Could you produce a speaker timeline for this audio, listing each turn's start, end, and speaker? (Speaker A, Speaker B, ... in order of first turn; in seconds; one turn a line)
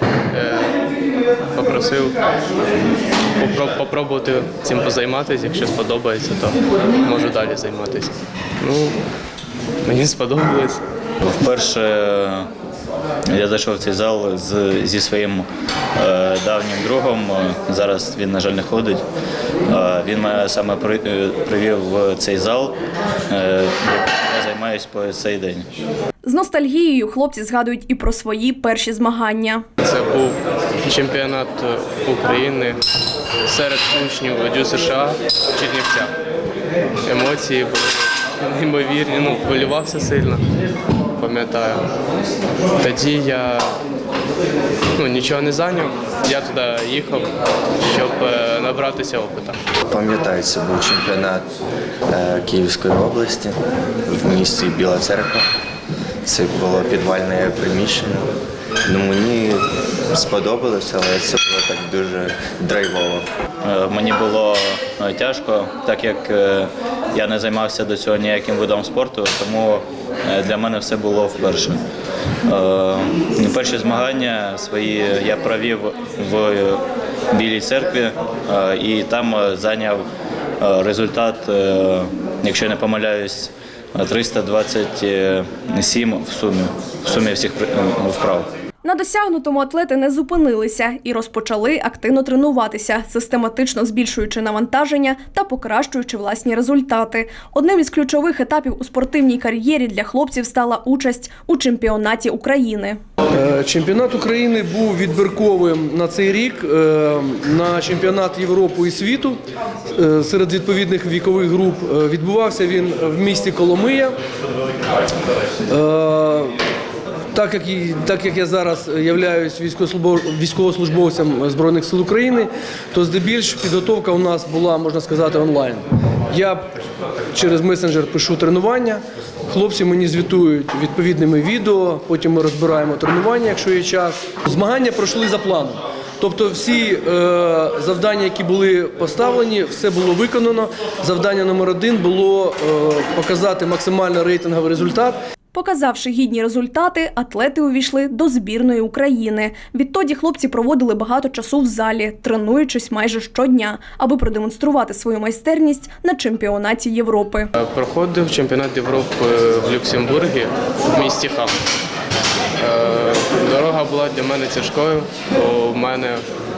Speaker A: 0.3-0.8
Speaker A: 1.5-2.2
Speaker A: 3.4-9.0
Speaker A: 9.8-10.8
Speaker B: 11.2-12.5
Speaker B: 13.3-19.0
Speaker B: 19.7-22.8
Speaker B: 23.3-25.7
Speaker C: 26.2-29.6
Speaker A: 29.8-32.8
Speaker A: 33.4-36.1
Speaker A: 37.0-40.4
Speaker A: 41.2-41.9
Speaker A: 42.8-43.8
Speaker A: 45.0-49.6
Speaker D: 49.9-51.5
Speaker D: 52.1-55.5
Speaker D: 56.2-58.3
Speaker D: 58.9-63.3
Speaker B: 63.6-71.8
Speaker B: 72.5-80.0
Speaker B: 80.6-88.5
Speaker C: 88.8-103.0
Speaker E: 103.3-114.2
Speaker E: 115.7-116.5
Speaker E: 117.3-126.7
Speaker E: 127.3-145.2
Speaker C: 145.5-157.5
Speaker A: 157.6-161.6
Speaker A: 162.6-166.2